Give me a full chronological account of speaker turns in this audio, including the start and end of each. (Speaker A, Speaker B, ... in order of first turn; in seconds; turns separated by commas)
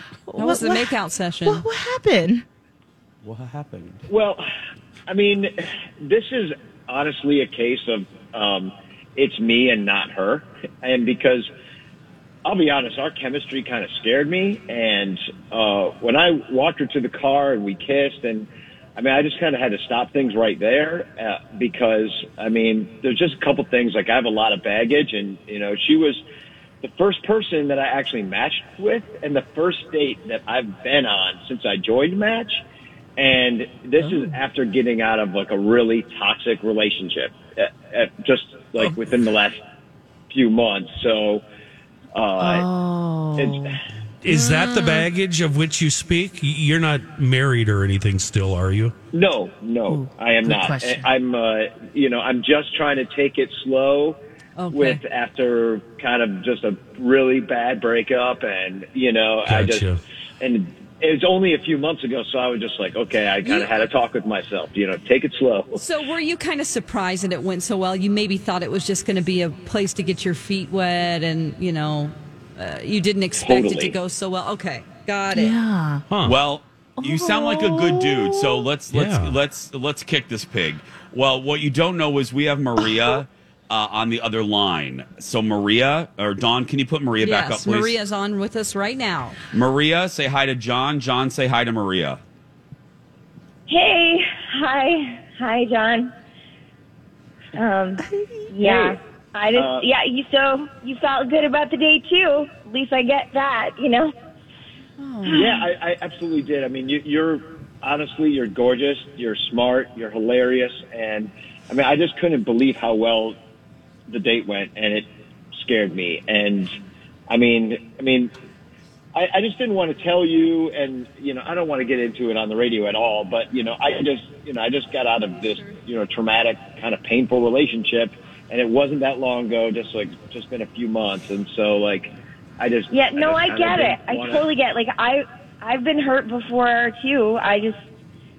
Speaker A: 0.3-2.5, Speaker B: 0.4-1.6, Speaker C: 3.2-4.0, Speaker D: 4.1-4.5, Speaker D: 5.1-11.5, Speaker D: 12.4-26.2, Speaker D: 26.8-32.6, Speaker D: 33.2-39.6, Speaker A: 34.0-34.3, Speaker D: 40.3-41.4, Speaker D: 42.1-42.6, Speaker A: 42.4-43.8, Speaker D: 43.4-43.8, Speaker E: 44.2-48.9, Speaker B: 44.3-45.0, Speaker D: 49.1-54.2, Speaker A: 49.9-51.1, Speaker B: 54.6-55.0, Speaker D: 54.7-59.9, Speaker E: 59.5-60.0, Speaker D: 60.4-65.8, Speaker B: 63.4-63.9, Speaker B: 65.8-75.5, Speaker D: 73.4-74.0, Speaker A: 75.3-76.0, Speaker E: 76.1-76.4, Speaker C: 76.2-88.0, Speaker A: 77.0-78.7, Speaker E: 78.9-79.4, Speaker B: 87.2-89.4, Speaker C: 89.5-92.2, Speaker F: 93.7-96.1, Speaker F: 97.5-104.1, Speaker A: 98.0-98.5, Speaker D: 98.6-99.0, Speaker D: 99.5-99.8, Speaker B: 105.0-105.7, Speaker D: 105.3-113.4, Speaker D: 114.1-116.7, Speaker D: 117.3-118.3, Speaker D: 119.2-134.5, Speaker F: 132.9-137.8